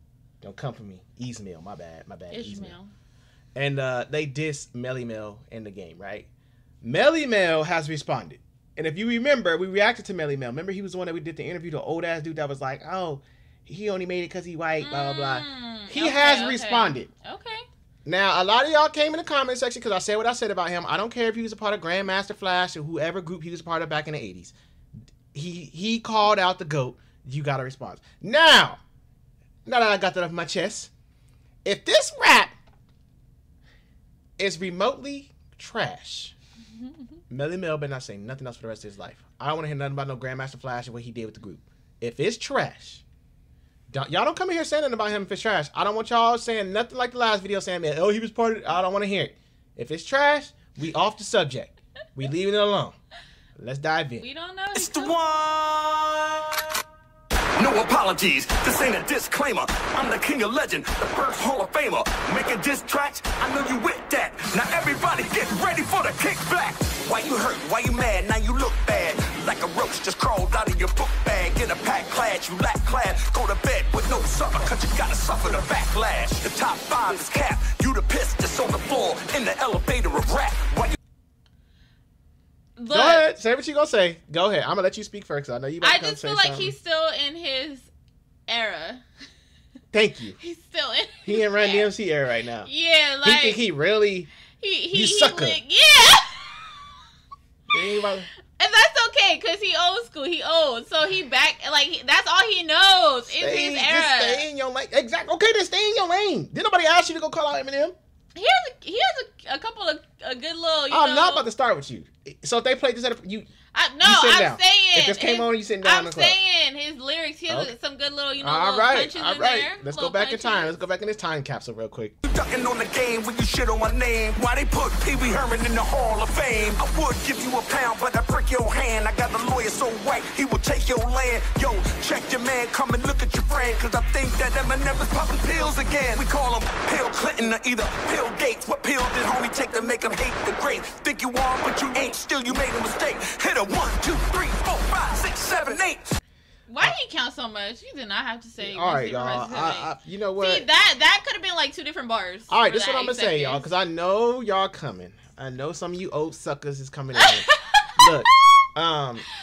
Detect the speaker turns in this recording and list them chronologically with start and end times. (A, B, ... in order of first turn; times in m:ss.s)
0:00.4-0:02.7 A
0:02.3-0:02.9 B
0:03.5-0:06.3 A
0:06.8-0:17.1 A
0:14.8-0:17.6 B
0:18.0-0:24.5 A
0:25.3-0:28.8 A
0:29.6-0:30.9 A
0:31.6-0:32.5 A
0:34.4-0:36.3 A
0:37.3-0:43.0 A
0:43.9-0:53.0 A
0:53.6-0:54.2 A
0:54.2-0:55.1 B
0:54.7-0:56.8 C
0:57.6-1:21.0 C
1:22.8-1:23.2 B
1:22.9-1:26.7 A
1:25.8-1:27.9 B
1:28.5-1:29.0 B
1:29.9-1:30.4 A
1:30.4-1:31.9 B
1:31.2-1:32.7 A
1:32.6-1:33.6 B
1:33.2-1:34.3 A
1:34.6-1:37.0 B
1:34.9-1:35.6 A
1:37.7-1:38.3 A
1:38.5-1:44.4 B
1:43.3-1:47.9 A
1:48.3-1:51.5 B
1:50.9-1:53.5 A
1:53.7-2:00.7 B
1:54.0-1:56.4 A
1:58.4-2:02.2 A
2:02.2-2:26.1 C
2:26.7-2:33.6 B
2:28.6-2:30.7 A
2:32.5-2:39.2 A
2:37.2-2:38.0 B